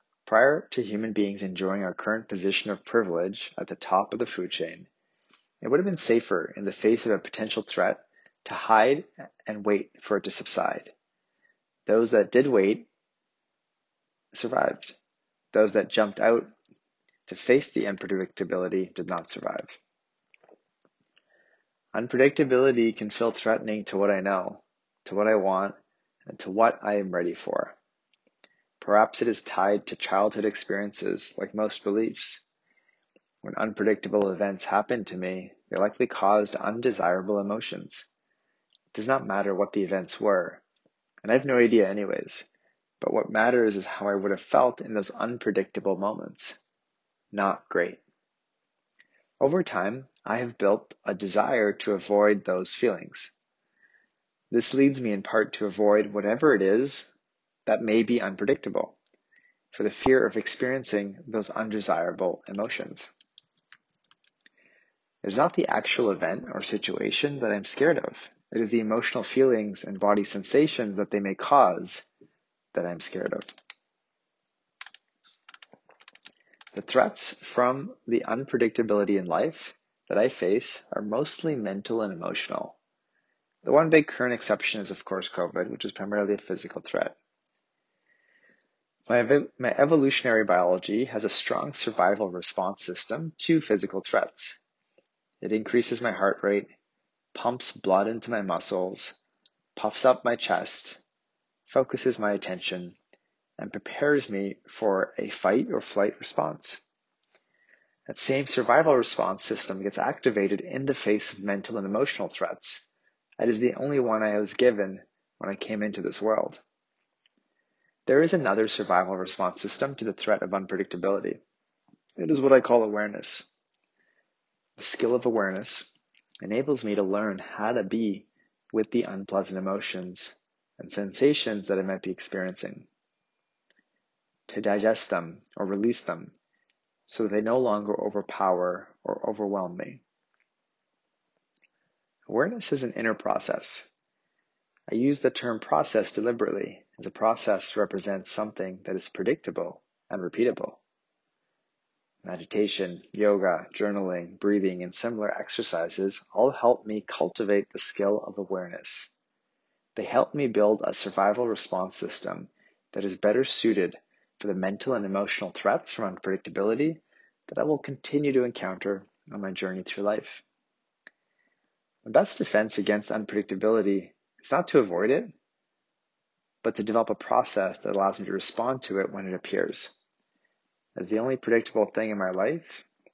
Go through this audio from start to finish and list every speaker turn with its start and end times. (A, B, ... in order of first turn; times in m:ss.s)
0:00.3-0:04.9 A
0:05.6-0:10.9 A
0:11.9-0:12.9 A
0:14.3-0:15.0 A
0:15.5-0:16.5 A
0:17.3-0:19.8 A
0:21.9-0:25.8 A
0:26.3-0:27.8 A
0:28.8-0:32.4 A
0:33.4-0:38.1 A
0:38.9-0:40.6 A
0:41.2-0:42.5 A
0:43.0-0:46.6 A
0:47.3-0:48.0 A
0:49.4-0:53.3 A
0:54.5-0:57.1 A
0:57.7-0:59.0 A
0:59.7-1:03.1 A
1:05.2-1:12.1 A
1:12.7-1:13.5 A
1:16.7-1:22.8 A
1:23.6-1:27.2 A
1:29.1-1:34.6 A
1:35.4-1:36.7 A
1:37.3-1:39.2 A
1:39.8-1:41.0 A
1:41.7-1:43.0 A
1:43.6-1:46.8 A
1:48.1-1:52.9 A
1:53.4-1:56.6 A
1:58.1-2:01.4 A
2:02.2-2:03.6 A
2:04.8-2:12.9 A
2:14.5-2:16.4 A
2:17.1-2:20.0 A
2:22.3-2:23.9 A
2:24.9-2:30.8 A
2:32.2-2:39.1 A
2:40.0-2:50.4 A
2:52.0-2:55.3 A
2:56.6-2:59.9 A
3:01.0-3:02.9 A